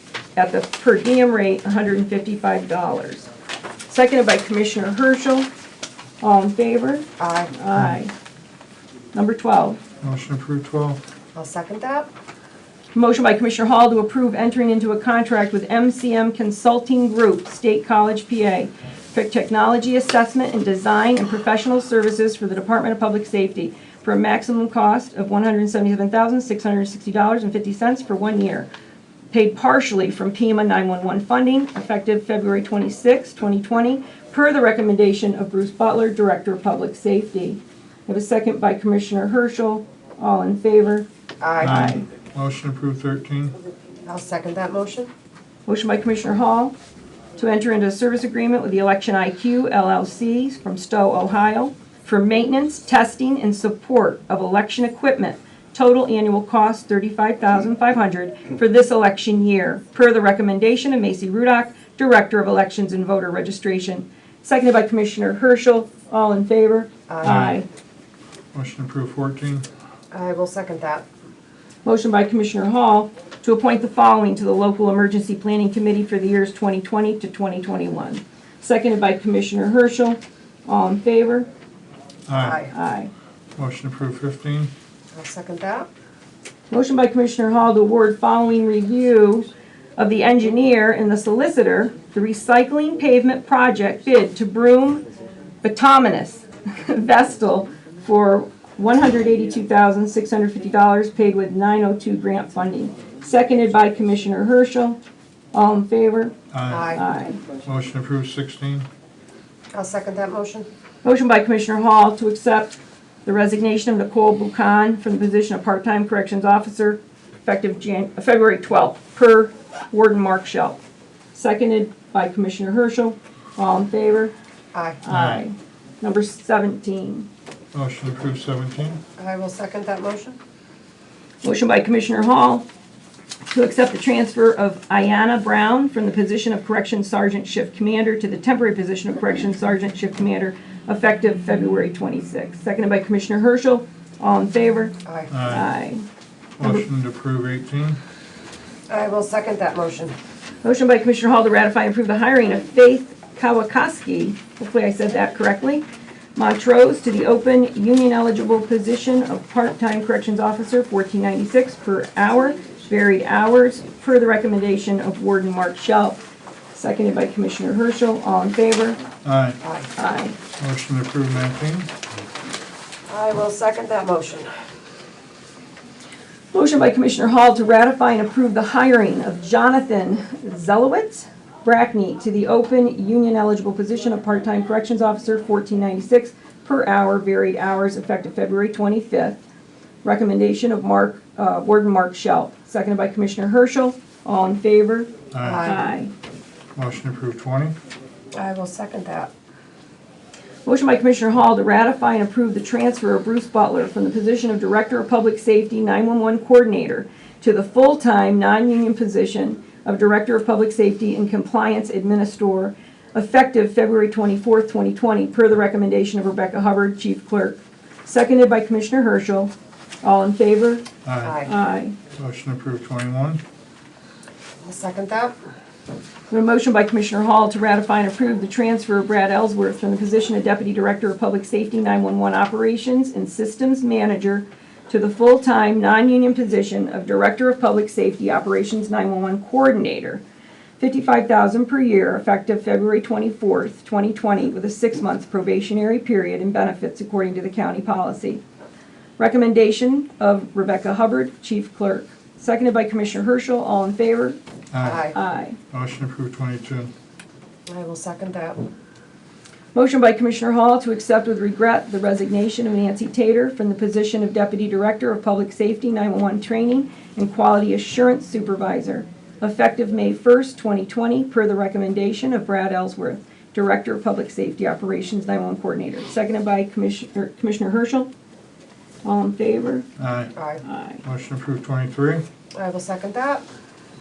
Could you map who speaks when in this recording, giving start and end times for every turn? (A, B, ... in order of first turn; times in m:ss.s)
0:00.4-0:03.3 A
0:03.9-0:05.5 A
0:06.2-0:08.1 A
0:07.2-0:07.5 B
0:07.7-0:08.0 C
0:09.1-0:09.8 A
0:10.0-0:11.0 C
0:11.4-0:12.1 B
0:13.0-0:28.7 A
0:29.3-0:41.1 A
0:41.4-0:41.9 B
0:41.6-0:42.1 A
0:41.6-0:43.6 C
0:44.1-0:45.1 B
0:45.7-0:46.7 A
0:47.4-1:07.7 A
1:07.1-1:07.5 B
1:07.2-1:07.6 C
1:08.5-1:09.7 C
1:10.1-1:11.0 B
1:11.8-1:21.5 A
1:22.3-1:22.7 C
1:22.3-1:22.7 B
1:22.7-1:23.1 A
1:23.6-1:24.7 C
1:25.1-1:25.9 B
1:26.7-1:35.0 A
1:35.6-1:45.0 A
1:45.5-1:46.4 A
1:46.5-1:47.0 C
1:46.7-1:47.0 B
1:46.9-1:47.4 A
1:47.6-1:48.9 C
1:49.7-1:50.7 B
1:51.0-2:00.8 A
2:01.3-2:04.3 A
2:04.7-2:05.0 B
2:05.0-2:07.3 A
2:05.1-2:05.4 C
2:07.7-2:09.0 C
2:09.2-2:10.4 B
2:11.4-2:12.7 A
2:13.5-2:24.9 A
2:25.1-2:25.3 B
2:25.3-2:25.7 C
2:25.5-2:26.0 A
2:26.6-2:28.0 C
2:26.6-2:26.9 A
2:28.9-2:30.2 B
2:30.6-2:35.8 A
2:36.4-2:46.2 A
2:46.7-2:49.0 A
2:49.2-2:49.6 C
2:49.6-2:49.9 B
2:50.0-2:50.4 A
2:50.6-2:51.9 C
2:53.1-2:54.5 B
2:56.5-3:09.4 A
3:10.0-3:15.1 A
3:15.3-3:15.7 C
3:15.4-3:15.9 B
3:15.6-3:16.1 A
3:16.8-3:17.8 C
3:18.4-3:19.3 B
3:20.6-3:39.5 A
3:40.0-3:40.9 A
3:41.0-3:41.4 C
3:41.2-3:41.5 B
3:41.5-3:42.0 A
3:42.2-3:43.4 C
3:44.6-3:45.4 B
3:46.3-4:00.2 A
4:00.8-4:08.4 A
4:09.2-4:14.4 A
4:14.7-4:15.1 C
4:14.8-4:15.1 B
4:15.1-4:15.6 A
4:15.7-4:16.9 C
4:17.7-4:18.7 B
4:19.8-4:38.1 A
4:39.0-4:39.9 A
4:40.0-4:40.3 C
4:40.4-4:40.6 B
4:40.6-4:41.0 A
4:41.0-4:42.2 C
4:42.6-4:43.4 B